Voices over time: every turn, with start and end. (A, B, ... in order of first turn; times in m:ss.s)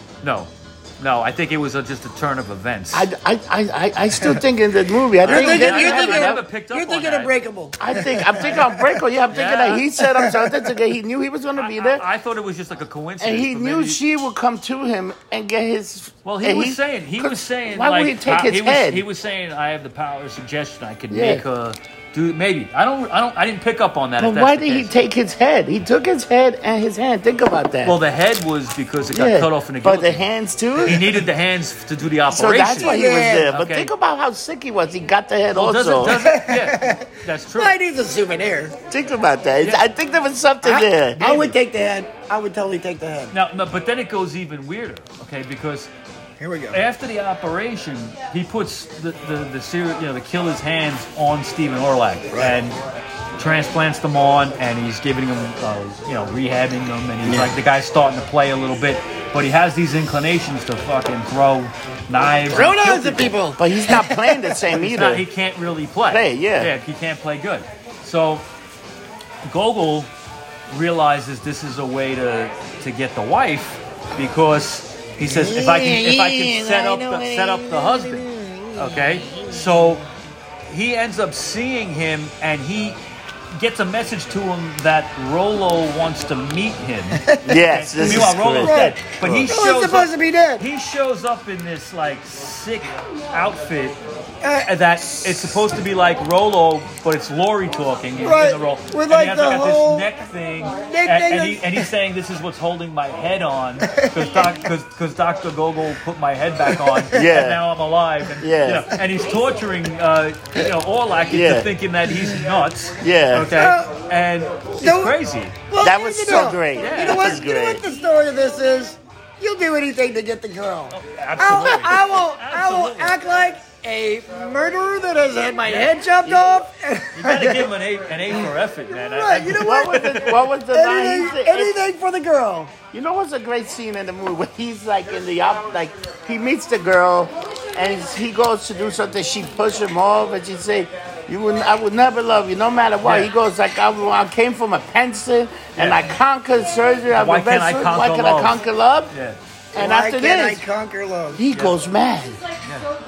0:00.2-0:03.1 A
0:02.9-0:06.4 B
0:05.2-0:07.4 A
0:05.2-0:09.0 C
0:07.8-0:12.0 B
0:09.3-0:09.9 A
0:10.0-0:10.6 C
0:11.6-0:14.0 A
0:13.2-0:19.0 B
0:16.2-0:24.9 A
0:21.1-0:21.4 B
0:24.2-0:28.0 B
0:27.8-0:30.2 A
0:29.1-0:31.2 B
0:30.8-0:33.9 A
0:32.3-0:36.2 B
0:32.8-0:33.5 C
0:35.5-0:37.8 A
0:36.0-0:38.8 C
0:38.9-0:41.5 B
0:40.6-0:43.3 C
0:43.3-0:45.9 A
0:46.4-0:46.8 C
0:46.7-0:52.8 A
0:52.3-0:52.6 C
0:53.4-1:03.4 A
1:02.5-1:04.6 C
1:03.6-1:05.2 B
1:04.8-1:08.5 A
1:06.1-1:06.7 B
1:09.4-1:10.1 A
1:10.7-1:20.0 A
1:15.2-1:19.8 C
1:20.7-1:23.0 A
1:23.5-1:34.0 A
1:27.1-1:30.7 C
1:27.4-1:29.5 B
1:34.4-1:35.6 C
1:34.6-1:55.6 A
1:38.2-1:40.1 C
1:40.9-1:41.9 C
1:43.8-1:44.7 C
1:46.7-1:47.2 C
1:47.1-1:47.6 B
1:48.4-1:49.0 B
1:51.3-1:51.7 B
1:53.0-1:53.6 B
1:53.5-1:54.0 C
1:54.8-2:07.7 C
1:55.8-1:57.8 B
1:56.8-1:57.4 A
2:00.9-2:03.2 A
2:05.6-2:05.9 A
2:07.1-2:10.4 A
2:08.9-2:12.7 C
2:09.5-2:11.8 B
2:12.9-2:29.1 B
2:23.0-2:23.3 A
2:25.8-2:26.1 A
2:27.1-2:28.6 A
2:29.1-2:29.4 A
2:29.8-2:30.6 B
2:29.8-2:31.4 C
2:31.4-2:32.4 B